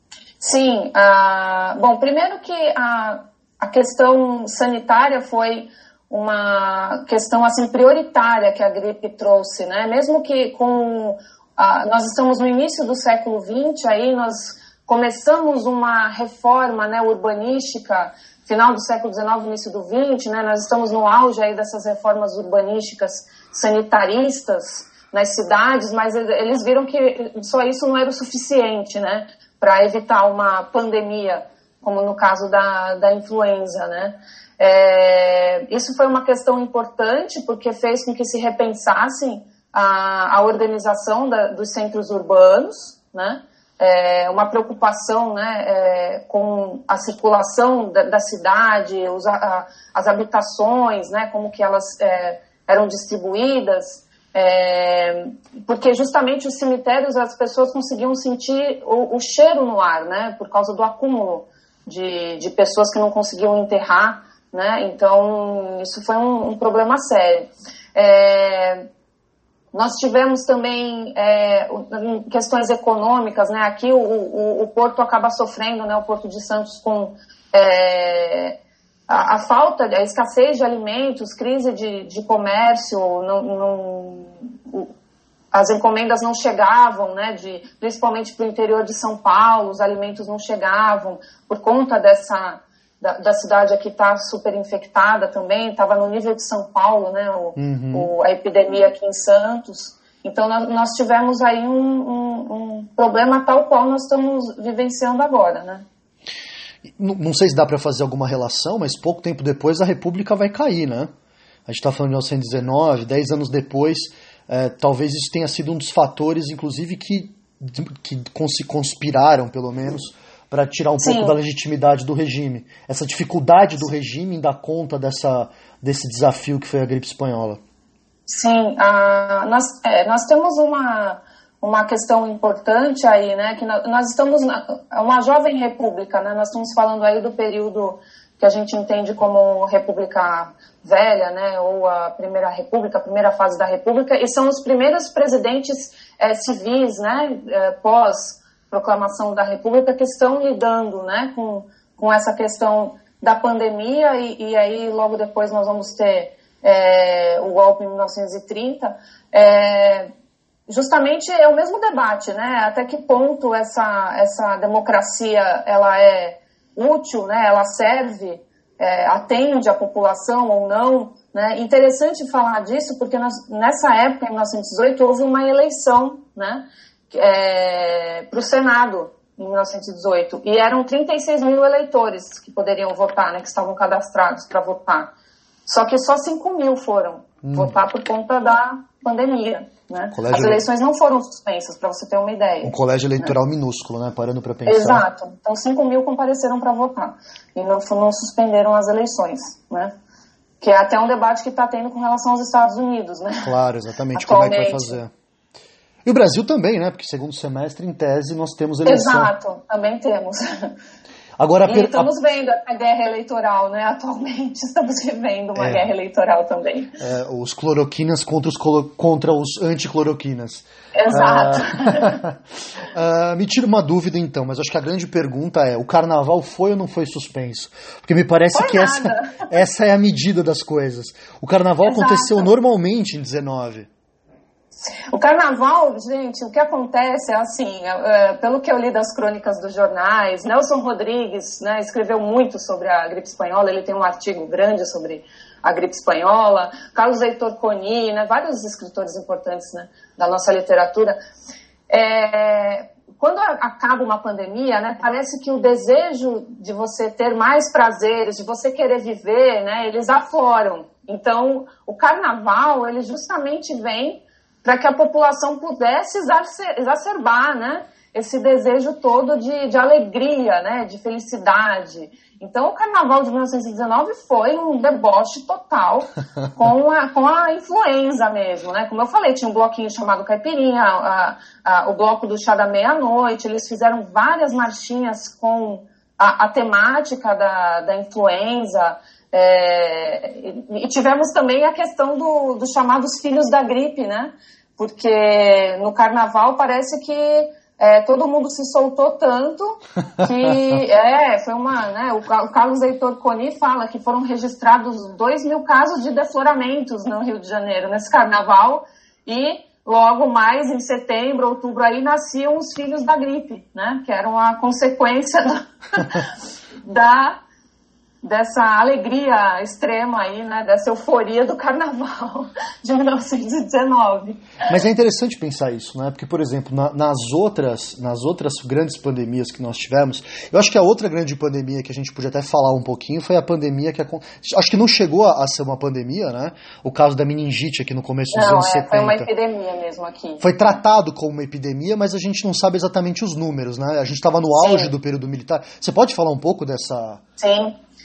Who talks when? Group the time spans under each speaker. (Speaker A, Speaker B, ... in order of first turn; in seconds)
Speaker A: 0.4-68.8, 69.7-78.6, 79.1-84.9, 85.5-105.8, 121.0-121.3, 128.3-160.1, 160.7-185.1, 185.7-193.3, 194.7-199.9, 200.6-203.5, 204.1-205.0, 208.8-210.7, 211.7-217.0, 220.9-222.2, 228.5-229.4, 231.8-232.5, 235.1-251.2, 251.9-316.3, 316.8-317.4, 318.2-324.4, 338.3-340.8, 344.6-344.9, 347.4-347.7
Speaker B: 97.5-98.1, 106.9-111.1, 111.7-127.6, 187.4-187.7, 190.1-190.6, 192.6-195.0, 203.4-205.1, 206.0-209.3, 211.4-212.1, 215.6-215.8, 217.0-222.3, 222.9-233.9, 324.7-339.3, 340.4-347.2